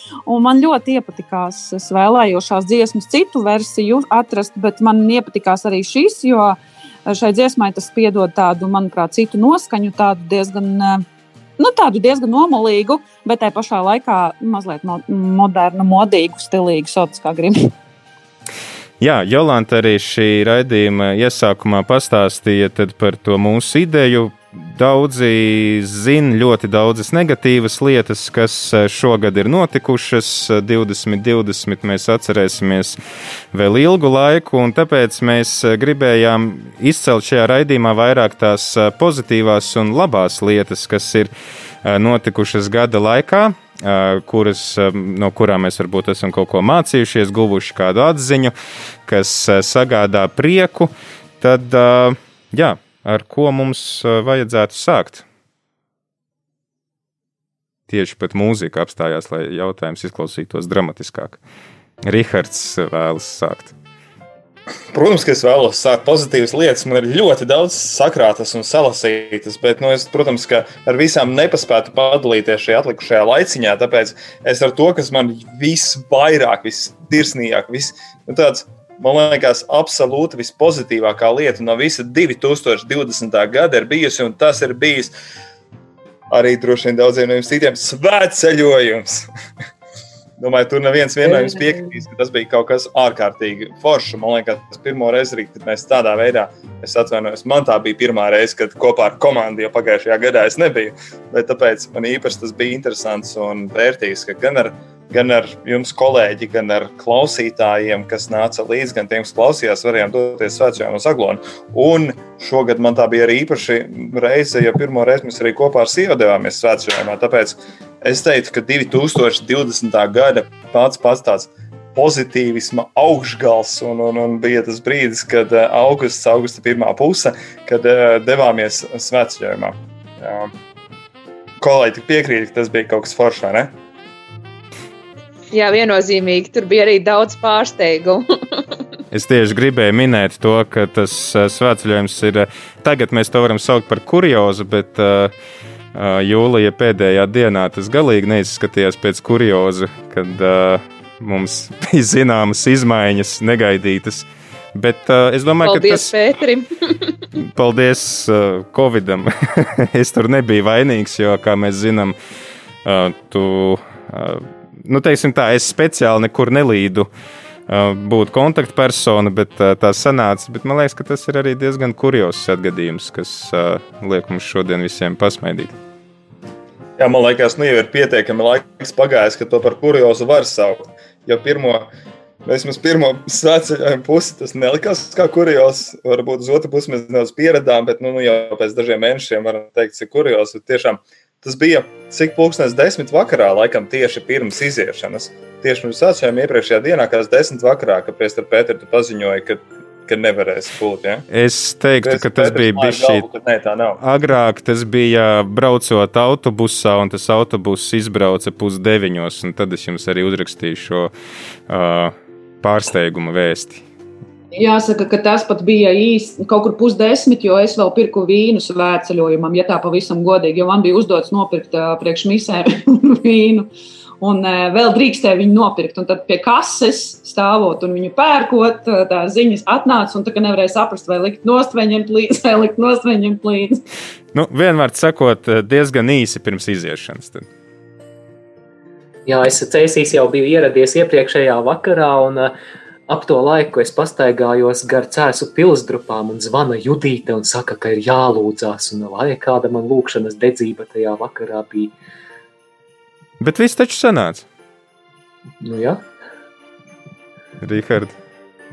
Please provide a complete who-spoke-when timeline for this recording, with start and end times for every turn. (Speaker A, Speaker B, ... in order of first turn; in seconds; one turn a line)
Speaker A: 0.3-11.0
Speaker A: 11.6-17.7
Speaker B: 19.0-33.0
Speaker B: 33.5-41.3
Speaker B: 41.8-55.2
Speaker B: 57.9-61.4
Speaker B: 62.0-63.7
Speaker C: 64.9-85.1
Speaker C: 86.3-89.2
Speaker C: 90.4-130.5
Speaker C: 131.6-133.7
Speaker D: 135.5-138.8
Speaker B: 139.1-145.3
Speaker B: 145.9-156.1
Speaker D: 155.6-157.1
Speaker B: 157.4-162.2
Speaker B: 162.8-167.1
Speaker B: 167.7-175.7
Speaker C: 177.0-181.9
Speaker C: 182.4-201.2
Speaker B: 201.3-203.2
Speaker C: 202.0-204.0
Speaker B: 204.0-211.1
Speaker B: 211.7-213.8
Speaker A: 214.5-223.7
Speaker A: 224.2-233.8
Speaker B: 234.3-237.5
Speaker E: 239.2-242.5
Speaker E: 243.1-251.9
Speaker B: 253.4-254.4
Speaker E: 255.6-256.0
Speaker B: 257.6-258.1